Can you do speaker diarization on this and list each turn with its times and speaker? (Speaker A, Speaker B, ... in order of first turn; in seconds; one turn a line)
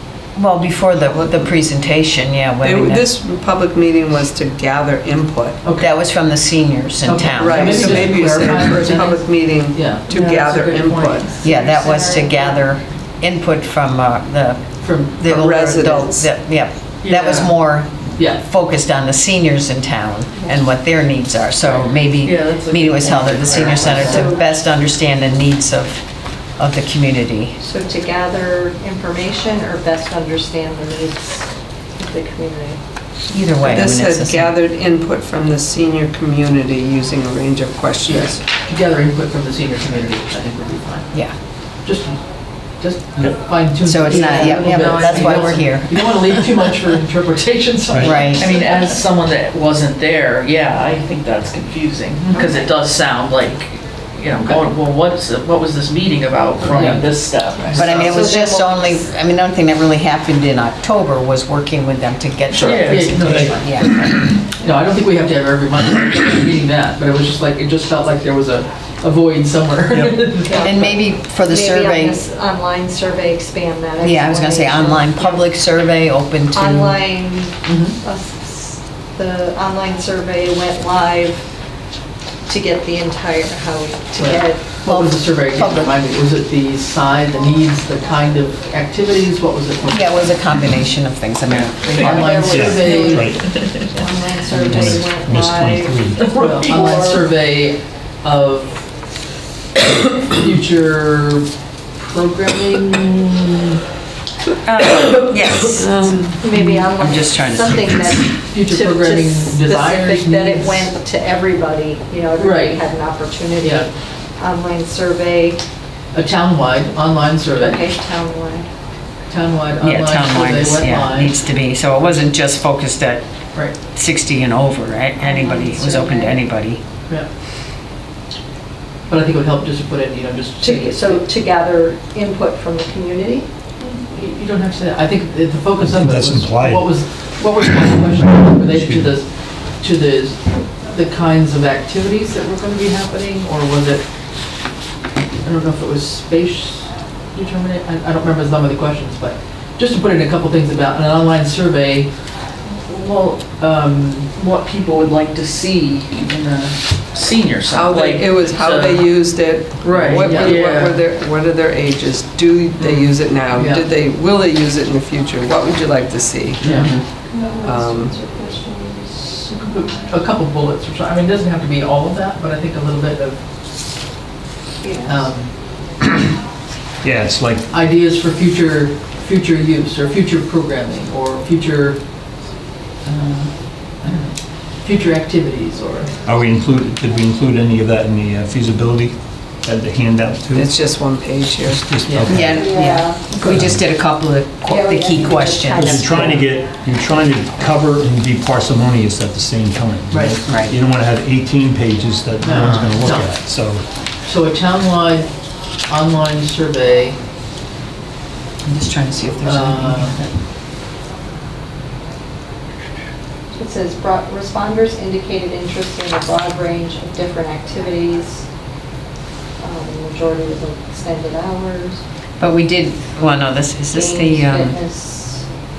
Speaker A: 0.3-3.1
Speaker B: 2.6-5.6
Speaker C: 5.6-5.9
Speaker A: 5.8-8.6
Speaker C: 7.0-11.5
Speaker B: 7.4-11.3
Speaker D: 11.4-12.8
Speaker A: 11.4-27.6
Speaker C: 14.8-15.2
Speaker B: 15.2-16.3
Speaker C: 17.0-17.6
Speaker C: 18.1-18.4
Speaker E: 22.2-24.2
Speaker C: 23.1-24.3
Speaker D: 24.0-24.4
Speaker D: 27.6-32.8
Speaker A: 33.3-34.5
Speaker B: 33.6-38.4
Speaker C: 38.1-48.9
Speaker A: 41.1-41.4
Speaker F: 43.2-43.5
Speaker A: 43.8-46.4
Speaker D: 44.1-45.6
Speaker E: 44.8-45.2
Speaker E: 46.1-46.3
Speaker F: 47.9-48.2
Speaker E: 48.0-58.3
Speaker A: 48.0-48.5
Speaker C: 52.3-52.6
Speaker C: 54.4-54.7
Speaker C: 56.6-57.0
Speaker C: 57.6-57.9
Speaker A: 57.7-64.2
Speaker D: 57.9-59.1
Speaker C: 62.5-70.8
Speaker E: 62.5-63.2
Speaker F: 63.1-64.3
Speaker F: 69.9-70.3
Speaker D: 70.4-75.5
Speaker A: 70.5-72.2
Speaker A: 74.0-77.0
Speaker D: 76.5-81.7
Speaker C: 77.7-78.0
Speaker D: 82.5-84.6
Speaker C: 84.2-90.5
Speaker A: 84.8-85.9
Speaker A: 89.9-92.6
Speaker C: 91.7-93.4
Speaker D: 91.9-97.3
Speaker F: 92.3-93.5
Speaker E: 92.9-93.9
Speaker F: 94.5-96.4
Speaker E: 96.2-96.9
Speaker C: 96.4-99.0
Speaker C: 100.3-103.6
Speaker A: 104.6-106.3
Speaker B: 105.8-106.3
Speaker D: 106.4-115.6
Speaker C: 106.4-106.9
Speaker A: 107.0-108.3
Speaker C: 108.5-110.9
Speaker C: 112.4-112.8
Speaker C: 113.6-113.9
Speaker C: 116.1-117.9
Speaker D: 117.6-118.7
Speaker C: 119.3-122.2
Speaker A: 119.8-126.8
Speaker D: 125.2-126.4
Speaker C: 129.1-131.3
Speaker D: 130.6-133.5
Speaker C: 133.8-144.7
Speaker F: 135.8-139.1
Speaker C: 145.4-152.3
Speaker E: 152.9-153.6
Speaker C: 153.5-154.3
Speaker E: 154.3-159.2
Speaker B: 157.7-167.0
Speaker E: 159.8-161.0
Speaker C: 159.8-160.8
Speaker C: 162.8-163.9
Speaker A: 166.6-167.1
Speaker C: 166.6-166.9
Speaker D: 167.3-169.5
Speaker B: 167.6-168.2
Speaker C: 169.5-173.5
Speaker D: 174.8-175.3
Speaker C: 175.1-175.8
Speaker F: 177.0-177.7
Speaker C: 177.7-182.4
Speaker C: 183.0-186.2
Speaker F: 186.2-191.1
Speaker B: 190.5-192.3
Speaker F: 191.7-192.8
Speaker C: 192.1-192.5
Speaker A: 192.3-196.5
Speaker D: 192.4-193.2
Speaker C: 193.3-193.6
Speaker F: 193.4-193.8
Speaker D: 194.7-196.5
Speaker F: 195.7-203.9
Speaker C: 200.1-200.4
Speaker A: 200.5-200.8
Speaker C: 202.4-207.2
Speaker A: 208.6-210.3
Speaker C: 209.4-210.3
Speaker D: 213.5-218.5
Speaker D: 219.6-222.0
Speaker A: 222.4-224.8
Speaker D: 223.9-225.5